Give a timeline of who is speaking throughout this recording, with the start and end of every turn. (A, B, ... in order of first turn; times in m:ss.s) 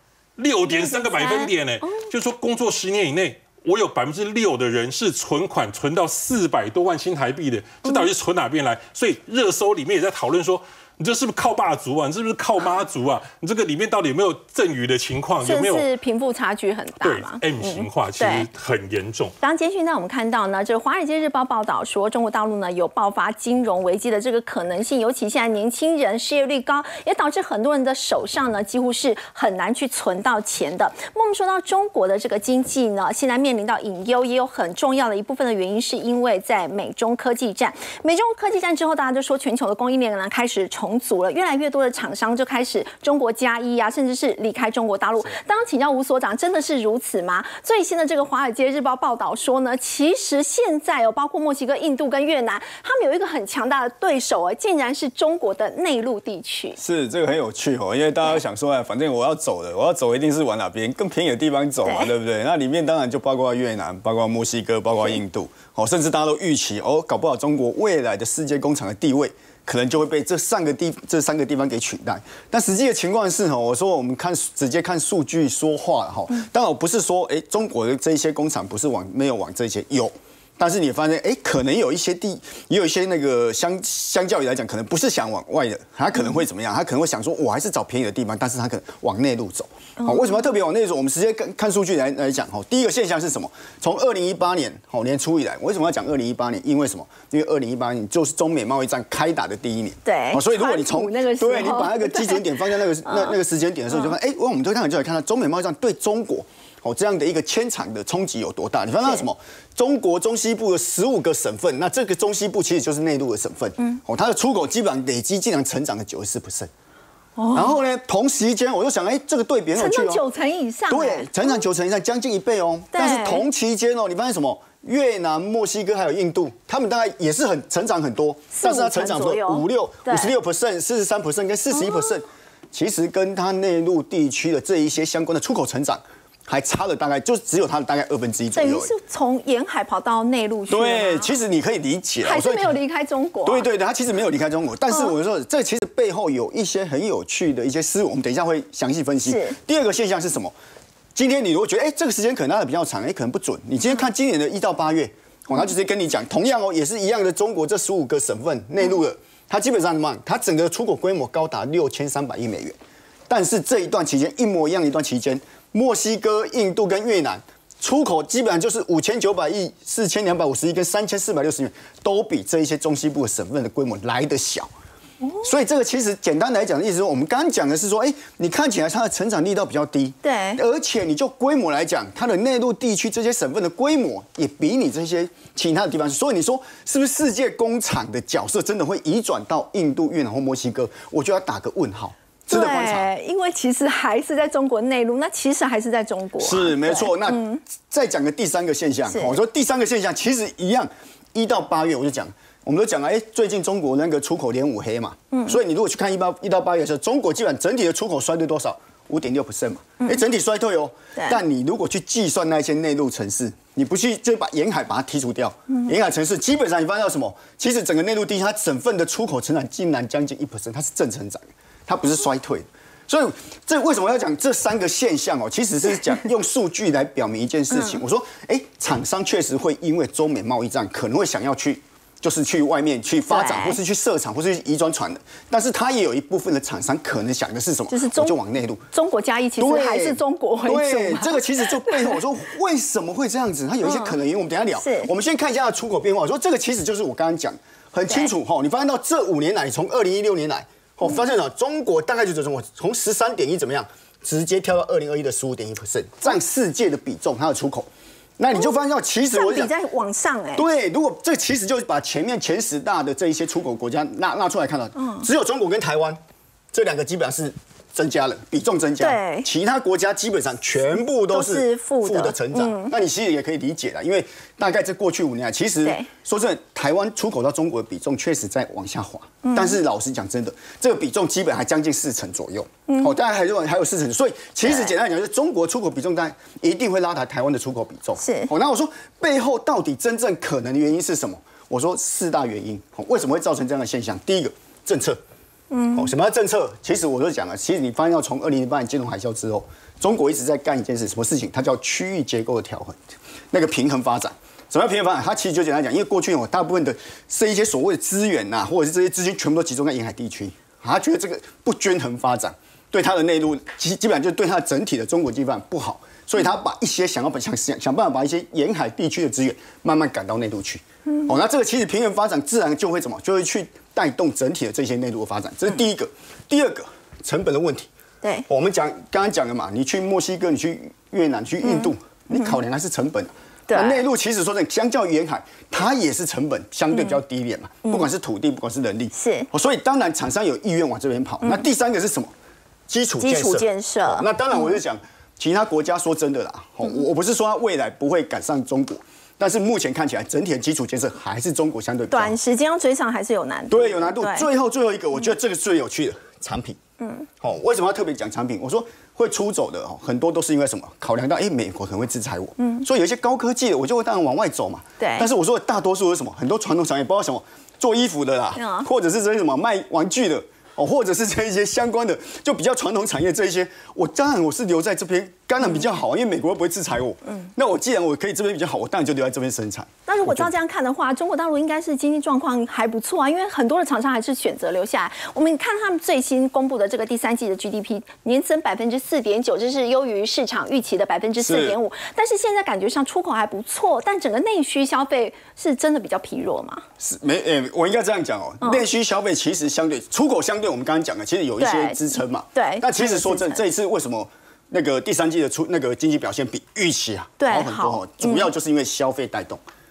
0:00.4-0:15.9 A
0:00.7-0:02.1 B
0:15.4-0:18.5 B
0:17.0-0:19.3 A
0:19.4-0:56.8 B
0:56.8-1:56.7 C
1:01.8-1:02.1 B
1:40.0-1:42.4 B
1:43.0-1:43.4 B
1:49.0-1:49.3 B
1:57.4-1:57.7 B
1:57.5-2:00.2 C
1:59.7-2:01.6 B
2:00.9-2:18.9 C
2:02.9-2:03.4 B
2:08.5-2:10.3 B
2:11.8-2:12.0 B
2:18.6-2:21.4 B
2:20.7-2:22.8 C
2:22.2-2:23.7 B
2:23.4-2:30.5 C
2:29.2-2:29.6 B
2:31.1-2:42.8 C
2:43.3-2:54.7 C
2:55.2-2:55.5 B
2:55.4-3:13.1 C
3:00.2-3:00.6 B
3:12.5-3:17.6 B
3:16.4-3:58.8 C
3:19.1-3:19.4 B
3:25.3-3:25.6 B
3:47.7-3:48.0 B
3:53.2-3:53.8 B
3:57.9-3:58.4 B
3:58.9-4:02.2 B
3:59.6-4:19.7 C
4:03.8-4:04.2 B
4:04.8-4:05.1 B
4:08.1-4:08.3 B
4:19.3-4:20.6 B
4:20.5-4:26.2 C
4:25.0-4:25.3 B
4:26.7-4:55.2 C
4:29.0-4:29.5 B
4:31.3-4:32.9 B
4:39.4-4:39.8 B
4:44.6-4:44.9 B
4:48.2-4:48.5 B
4:55.7-4:56.1 B
4:55.9-5:03.0 C
5:03.5-5:27.9 C
5:28.5-5:42.3 C
5:31.6-5:32.6 B
5:33.7-5:34.0 B
5:36.9-5:37.2 B
5:39.1-5:39.5 B
5:42.9-5:52.4 C
5:43.2-5:44.8 B
5:52.1-5:54.5 B
5:53.7-5:56.8 C
5:57.0-5:57.3 B
5:57.4-6:20.5 C
6:02.6-6:02.8 B
6:05.0-6:05.3 B
6:08.5-6:08.9 B
6:20.1-6:36.8 B
6:31.4-6:31.8 C
6:37.0-6:49.6 C
6:41.6-6:43.6 B
6:47.4-6:48.5 B